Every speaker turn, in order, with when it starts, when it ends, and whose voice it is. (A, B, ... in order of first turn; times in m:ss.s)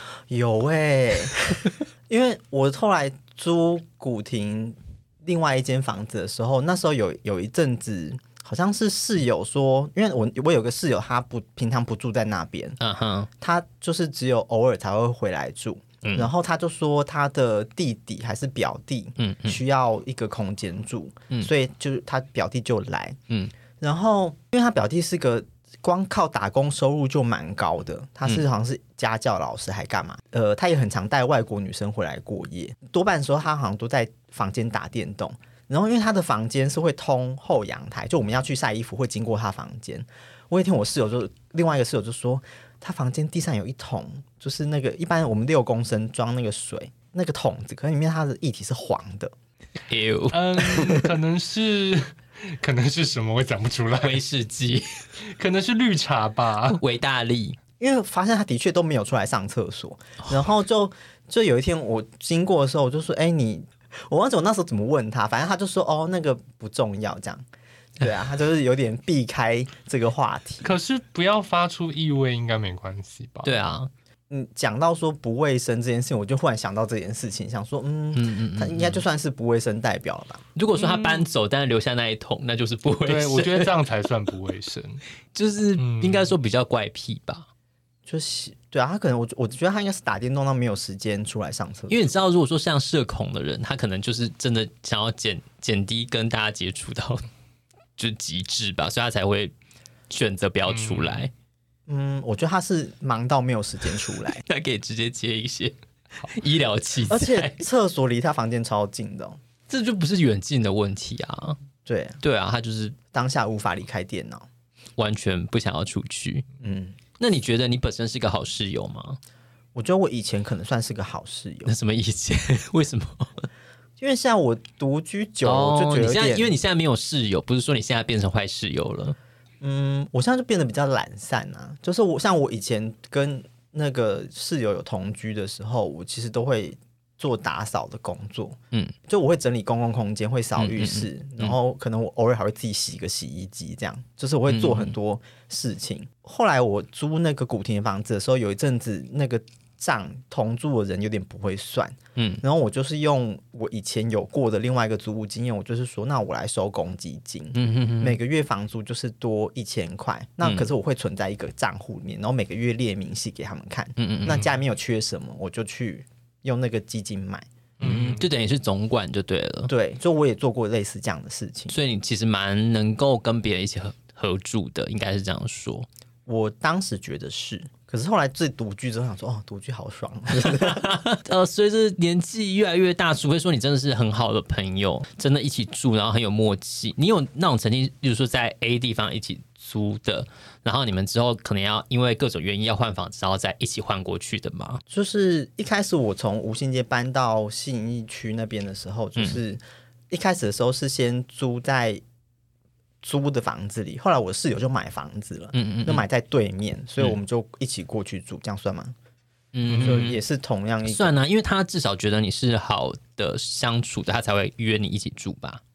0:00.3-0:12.8 A
0:12.8-0:13.3 B
0:13.4-0:23.2 A
0:16.0-0:16.3 B
0:19.2-0:19.6 B
0:23.8-0:49.3 A
0:49.9-0:50.6 B
0:50.3-0:54.2 C
0:50.8-0:51.1 A
0:54.0-0:55.0 B
0:55.3-0:56.8 C
0:56.7-0:57.6 B
0:57.8-1:07.4 A
1:08.0-1:10.7 A
1:10.6-1:13.6 C
1:13.4-1:13.9 B
1:14.3-1:20.4 A
1:18.1-1:19.0 B
1:20.6-1:23.7 B
1:20.8-1:21.2 C
1:23.0-1:25.0 C
1:25.3-1:27.5 B
1:25.8-1:26.3 C
1:28.0-1:32.0 A
1:31.9-1:37.2 B
1:38.0-1:39.5 B
1:40.1-1:41.3 B
1:40.7-1:41.3 C
1:41.9-1:44.4 A
1:44.4-1:47.6 B
1:47.1-1:49.4 A
1:49.7-1:51.6 B
1:51.8-1:52.2 A
1:52.2-1:53.0 B
1:53.1-1:54.5 A
1:55.0-1:56.4 B
1:56.6-1:57.0 A
1:57.2-1:59.2 B
1:59.7-2:01.7 A
2:01.6-2:03.5 B
2:04.0-2:06.6 A
2:05.4-2:09.2 B
2:09.6-2:47.5 A
2:20.6-2:21.5 B
2:24.5-2:24.9 B
2:32.2-2:32.4 B
2:37.5-2:38.2 B
2:44.0-2:44.4 B
2:47.8-2:48.2 C
2:47.8-2:49.7 B
2:49.7-2:51.7 A
2:51.7-2:55.9 B
2:56.2-3:00.9 A
3:00.4-3:14.8 B
3:14.9-3:22.0 A
3:23.0-3:28.9 A
3:25.5-3:26.0 B
3:29.5-3:30.2 B
3:29.7-3:30.1 C
3:29.8-3:31.2 A
3:30.8-3:35.6 B